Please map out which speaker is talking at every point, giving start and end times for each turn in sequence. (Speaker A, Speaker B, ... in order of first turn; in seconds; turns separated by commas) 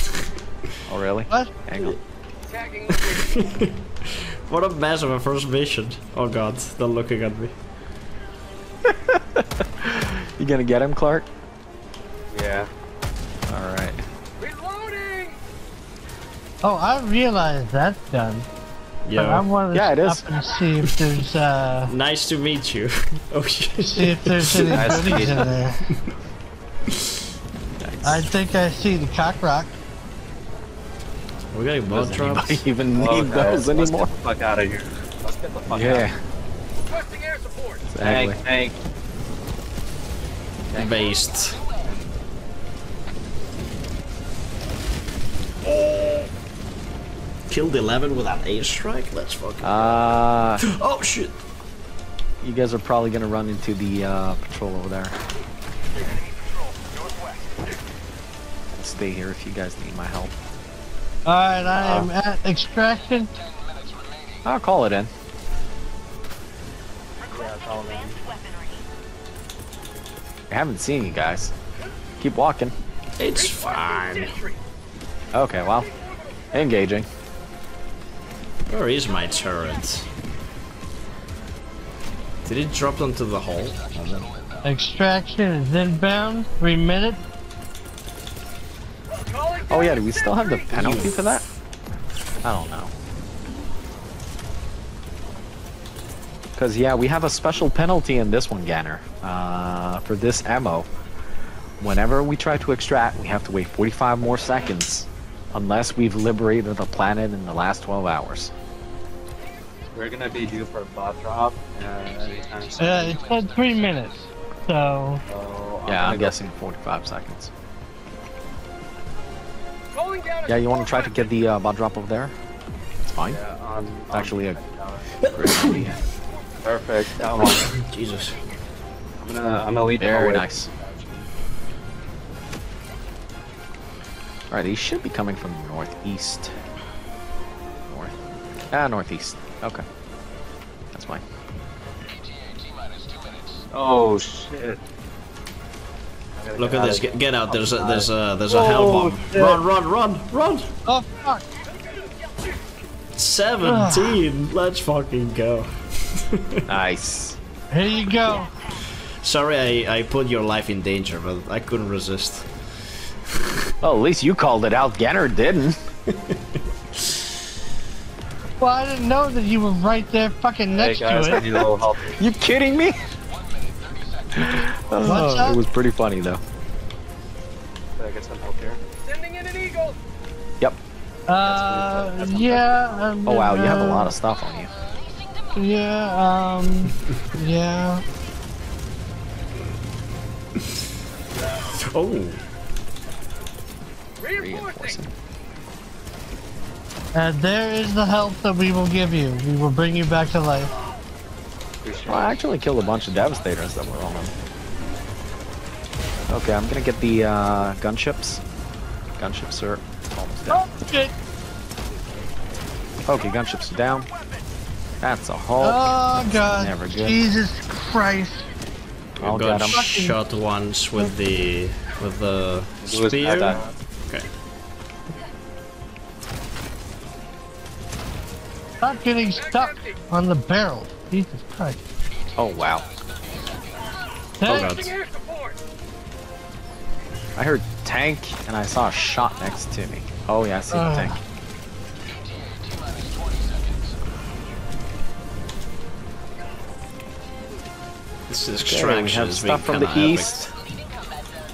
Speaker A: 0.9-2.0, Speaker B: 2.6-3.4, Speaker C: 2.9-7.5, Speaker A: 8.8-11.2, Speaker D: 12.3-12.7, Speaker A: 13.5-14.0, Speaker B: 14.4-15.4, Speaker E: 16.6-18.5, Speaker C: 19.1-19.4, Speaker E: 19.1-21.9, Speaker A: 19.7-20.3, Speaker C: 21.9-24.8, Speaker E: 23.8-25.8, Speaker D: 24.7-25.5, Speaker A: 27.8-28.3, Speaker E: 28.0-29.8, Speaker C: 31.5-32.6, Speaker A: 31.9-34.1, Speaker D: 32.9-36.1, Speaker A: 35.7-36.2, Speaker B: 36.9-37.8, Speaker A: 37.9-38.4, Speaker D: 38.0-38.8, Speaker C: 40.7-41.6, Speaker C: 45.8-46.2, Speaker C: 47.5-51.4, Speaker A: 49.6-50.6, Speaker A: 52.4-55.1, Speaker A: 58.7-60.3, Speaker E: 61.2-63.3, Speaker A: 61.8-62.1, Speaker A: 64.4-65.1, Speaker D: 67.2-68.2, Speaker A: 70.5-71.5, Speaker A: 72.2-72.7, Speaker C: 73.2-74.3, Speaker B: 73.5-74.5, Speaker A: 75.3-75.9, Speaker A: 76.5-77.1, Speaker C: 78.7-80.1, Speaker C: 82.4-84.3, Speaker E: 84.6-87.2, Speaker B: 89.2-90.5, Speaker A: 89.7-91.4, Speaker C: 90.7-91.1, Speaker A: 92.4-92.9, Speaker A: 96.6-100.9, Speaker A: 101.8-108.5, Speaker D: 109.9-113.4, Speaker E: 112.8-115.2, Speaker D: 115.3-116.4, Speaker A: 115.9-117.5, Speaker B: 120.1-120.4, Speaker A: 120.5-122.3, Speaker A: 123.0-123.4, Speaker D: 123.3-125.9, Speaker A: 124.1-124.6, Speaker C: 125.2-125.9, Speaker A: 125.3-126.0, Speaker D: 126.6-127.7, Speaker C: 127.4-128.4, Speaker D: 129.2-131.3, Speaker A: 130.0-130.7, Speaker A: 134.5-136.5, Speaker A: 137.9-138.1, Speaker A: 138.7-139.8, Speaker A: 140.9-141.2, Speaker D: 143.7-144.8, Speaker D: 146.3-149.3, Speaker C: 146.6-150.7, Speaker E: 149.3-149.6, Speaker E: 150.8-151.4, Speaker C: 153.2-156.6, Speaker E: 153.6-154.2, Speaker A: 156.7-157.4, Speaker E: 157.7-158.5, Speaker C: 159.2-162.5, Speaker C: 163.3-163.7, Speaker A: 163.8-165.8, Speaker E: 168.6-171.4, Speaker D: 170.7-172.2, Speaker A: 171.3-173.0, Speaker A: 174.3-176.4, Speaker E: 175.0-175.6, Speaker D: 177.9-178.8, Speaker B: 179.0-180.0, Speaker E: 181.3-184.1, Speaker D: 181.4-183.2, Speaker A: 183.2-184.7, Speaker E: 185.5-188.0, Speaker C: 191.6-192.4, Speaker A: 194.2-195.1, Speaker E: 197.1-200.7, Speaker D: 201.8-202.4, Speaker A: 202.1-204.3, Speaker A: 206.3-208.4, Speaker A: 209.2-210.7, Speaker E: 210.5-211.1, Speaker A: 213.1-214.1, Speaker A: 215.0-217.2, Speaker E: 215.6-218.5, Speaker C: 219.2-224.3, Speaker A: 219.2-219.8, Speaker E: 219.7-220.2, Speaker D: 222.8-223.7, Speaker A: 223.3-223.6, Speaker E: 228.8-231.8, Speaker A: 232.4-232.8, Speaker E: 234.4-234.7, Speaker C: 234.4-234.9, Speaker B: 234.6-235.5, Speaker A: 237.3-241.2, Speaker E: 240.7-241.2, Speaker C: 248.3-250.5, Speaker A: 248.6-250.5